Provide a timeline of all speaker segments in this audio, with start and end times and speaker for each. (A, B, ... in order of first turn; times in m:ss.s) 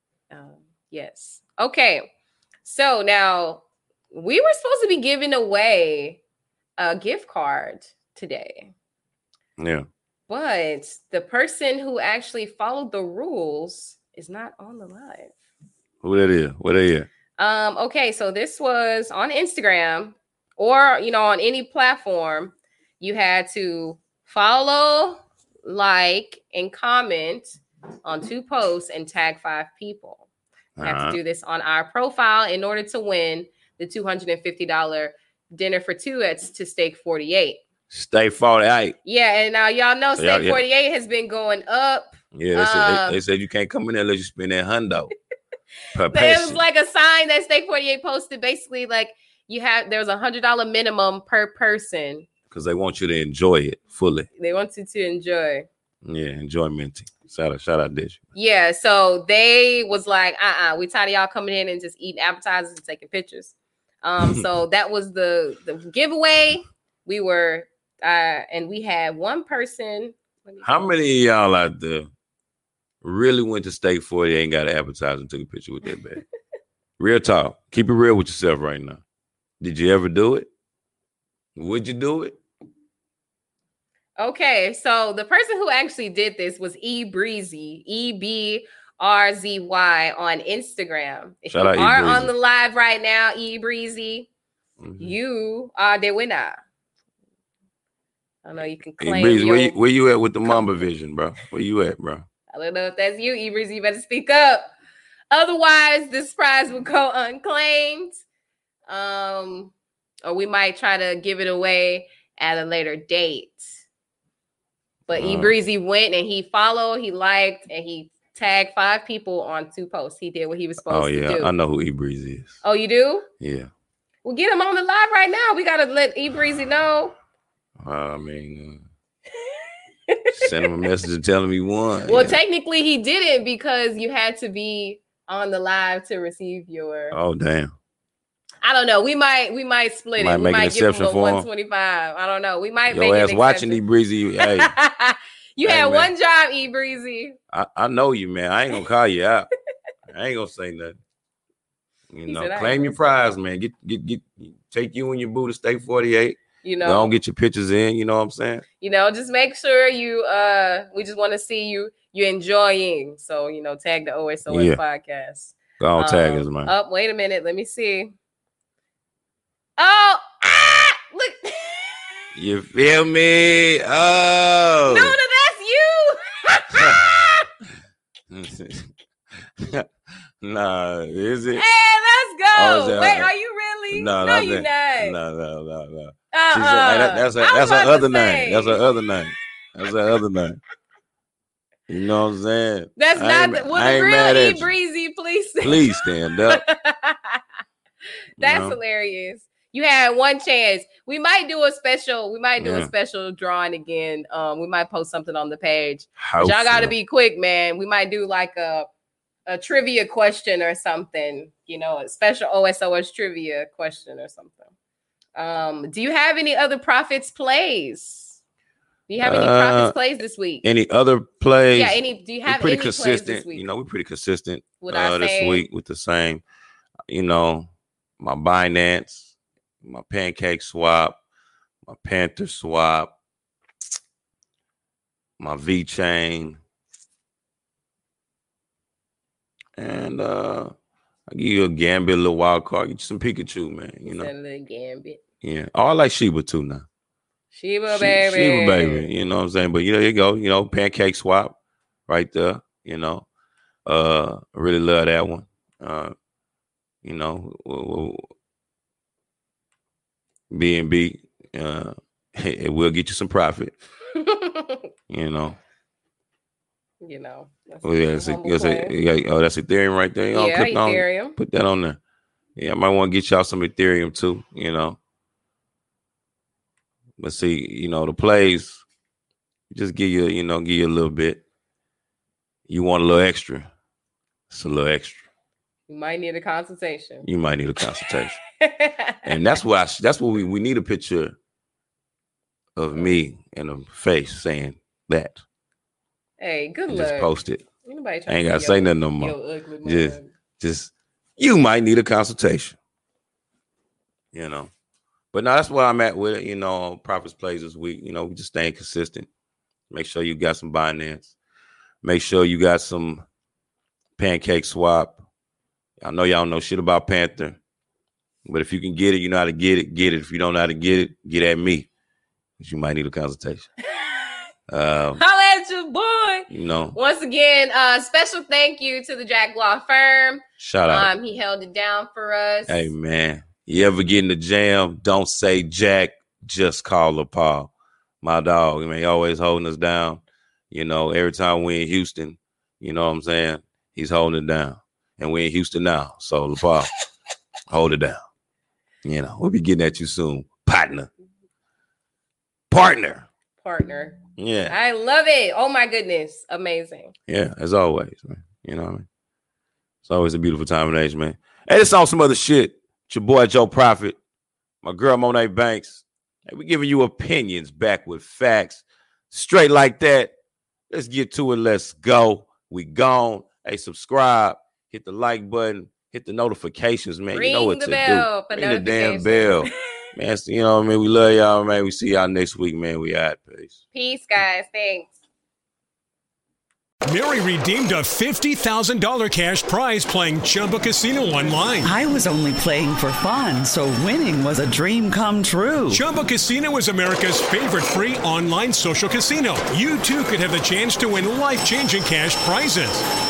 0:00.3-0:02.1 A
0:02.6-0:06.2 A
0:06.8-0:08.7 A
0:09.6-0:09.8 B
0:10.3-0:15.3 A
0:16.0-0:17.1 B
0:17.4-0:30.2 A
0:30.8-0:31.2 B
0:30.8-0:37.6 A
0:37.9-0:39.0 B
0:39.0-0:43.2 A
0:40.2-0:40.6 B
0:42.3-0:45.1 B
0:45.9-0:46.6 B
0:46.1-0:52.3 A
0:52.5-0:54.3 B
0:54.4-0:55.6 A
0:56.0-0:58.2 B
0:58.3-1:10.6 A
1:10.6-1:12.1 B
1:13.0-1:16.2 B
1:17.0-1:19.0 B
1:19.6-1:20.5 B
1:21.6-1:22.4 B
1:24.2-1:34.3 A
1:31.5-1:32.3 B
1:34.8-1:35.1 B
1:35.0-1:36.6 A
1:38.4-1:39.8 A
1:39.0-1:42.2 B
1:42.5-1:44.7 A
1:45.3-1:48.2 A
1:48.9-1:49.7 A
1:50.2-1:53.8 A
1:55.1-2:01.5 A
1:55.1-1:55.5 B
2:00.8-2:02.6 B
2:02.6-2:03.2 A
2:03.4-2:03.7 B
2:04.2-2:07.1 A
2:07.8-2:08.8 B
2:10.1-2:10.9 A
2:10.3-2:12.4 B
2:12.0-2:17.2 A
2:17.1-2:17.7 B
2:18.6-2:23.8 A
2:20.2-2:21.4 B
2:22.9-2:24.7 B
2:24.4-2:27.4 A
2:25.6-2:26.1 B
2:27.5-2:29.5 B
2:30.1-2:31.0 B
2:32.1-2:38.6 B
2:32.2-2:33.0 A
2:36.6-2:37.1 A
2:38.8-2:48.1 A
2:44.5-2:44.8 B
2:45.8-2:46.7 B
2:49.8-2:52.1 A
2:52.3-2:55.2 B
2:54.9-2:57.4 A
2:56.7-2:57.0 B
2:58.3-2:58.9 B
2:59.6-2:59.9 B
3:00.4-3:01.6 B
3:01.6-3:05.2 A
3:02.5-3:03.3 B
3:03.9-3:10.6 B
3:06.3-3:08.8 A
3:11.9-3:14.7 B
3:13.0-3:17.4 A
3:15.6-3:16.6 B
3:18.4-3:18.8 B
3:18.4-3:28.9 A
3:22.6-3:22.9 B
3:26.2-3:26.9 B
3:29.5-3:34.7 A
3:35.4-3:38.4 A
3:39.1-3:40.6 A
3:39.2-3:40.0 B
3:40.6-3:46.4 B
3:41.7-3:43.7 A
3:44.8-3:45.6 A
3:47.1-3:47.7 B
3:48.2-3:51.2 B
3:51.8-3:53.1 B
3:55.4-3:56.6 B
3:59.8-4:00.7 B
4:01.3-4:04.3 B
4:04.0-4:05.2 A
4:05.4-4:06.8 B
4:07.5-4:09.1 A
4:07.9-4:11.5 B
4:12.1-4:13.2 B
4:13.8-4:16.1 B
4:17.0-4:18.2 B
4:20.5-4:23.7 B
4:24.1-4:24.9 A
4:25.1-4:25.6 B
4:27.0-4:28.9 A
4:27.8-4:32.0 B
4:30.3-4:31.4 A
4:32.6-4:35.0 B
4:37.2-4:38.8 B
4:39.7-4:41.4 B
4:42.7-4:43.7 B
4:44.5-4:45.2 B
4:45.9-4:47.3 A
4:47.2-4:48.4 B
4:48.6-4:49.3 A
4:49.2-4:51.3 B
4:52.8-4:55.4 B
4:56.4-4:57.3 A
4:56.9-4:57.6 B
4:57.8-5:00.3 A
4:58.3-5:02.8 B
5:04.3-5:04.7 B
5:05.3-5:09.3 B
5:09.9-5:11.3 B
5:12.0-5:13.2 B
5:14.2-5:15.2 B
5:16.0-5:17.6 B
5:18.4-5:21.9 B
5:22.6-5:23.7 B
5:24.0-5:24.4 A
5:24.7-5:25.2 B
5:25.2-5:32.8 A
5:26.5-5:27.0 B
5:30.6-5:31.1 B
5:32.7-5:37.7 B
5:38.2-5:46.9 B
5:47.7-5:48.2 B
5:49.0-5:51.1 B
5:52.7-5:53.3 B
5:53.6-5:57.1 A
5:54.4-5:54.7 B
5:57.3-5:59.0 B
6:00.0-6:04.2 B
6:04.8-6:10.3 B
6:10.9-6:23.8 B
6:17.3-6:19.7 A
6:23.9-6:25.1 A
6:27.1-6:31.9 C
6:31.8-6:36.0 D
6:35.9-6:43.0 C